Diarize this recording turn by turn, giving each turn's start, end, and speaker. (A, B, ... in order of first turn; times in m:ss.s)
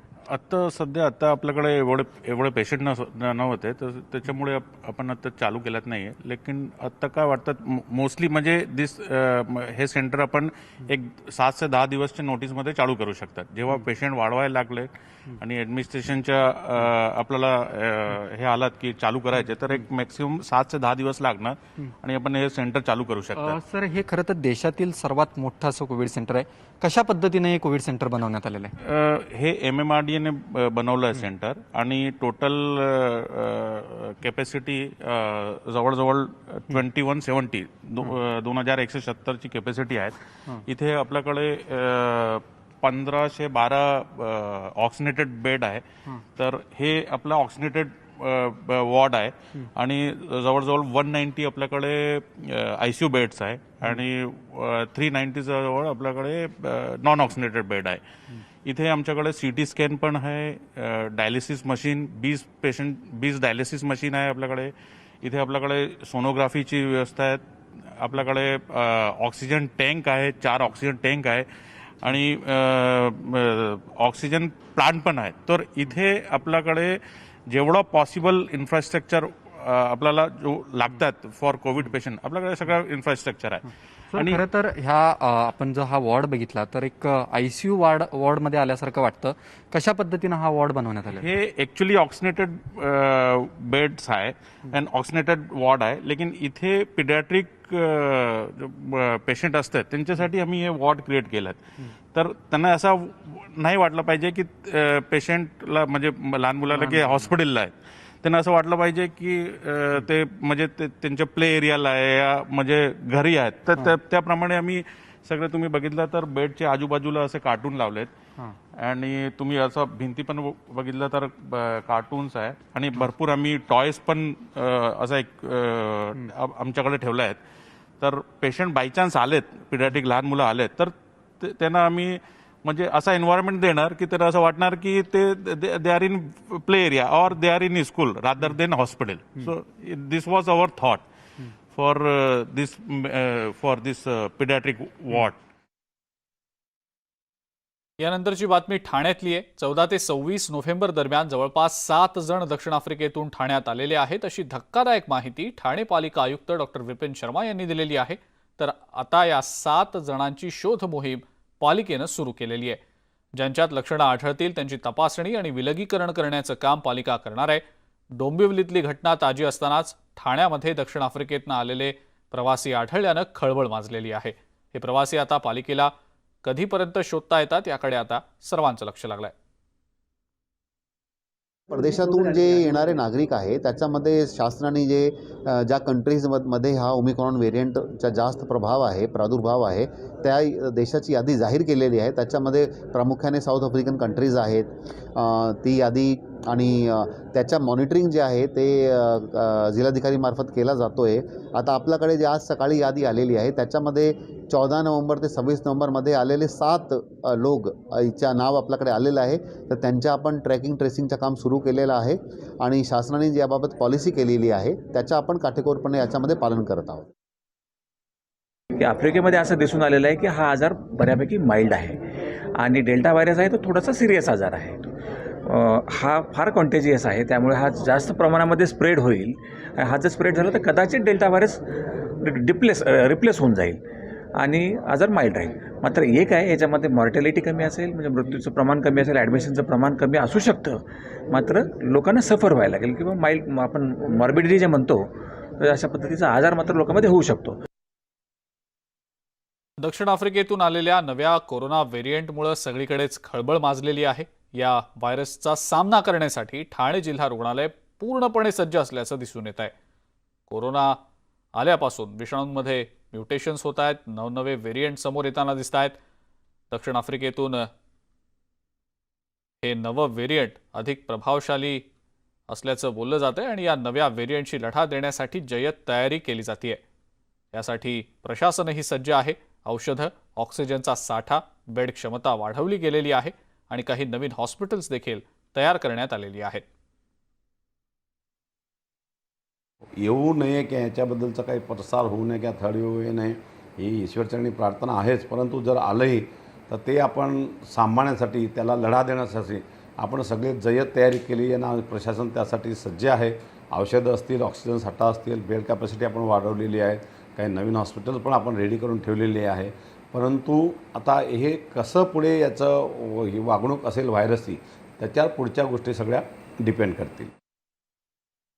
0:00.3-0:23.6 A
0:23.4-0:28.7 B
0:28.8-0:58.0 A
0:58.6-1:11.5 A
1:12.0-1:24.5 A
1:24.1-1:31.3 B
1:31.1-1:58.1 A
1:46.7-1:47.3 B
1:58.7-2:07.4 A
2:08.0-2:21.0 A
2:21.7-2:25.4 A
2:28.0-2:42.8 C
2:43.4-2:47.6 C
2:48.2-2:55.9 C
2:56.4-2:59.3 C
3:01.7-3:37.0 D
3:38.7-3:42.0 E
3:42.6-3:44.9 E
3:45.4-3:51.6 E
3:52.2-3:53.8 E
3:54.4-4:07.6 E
4:09.8-4:19.7 C
4:20.5-4:21.0 C
4:21.6-4:26.0 C
4:26.7-4:27.7 C
4:29.6-4:31.9 C
4:32.5-4:36.8 C
4:37.5-4:46.6 C
4:50.0-5:17.3 F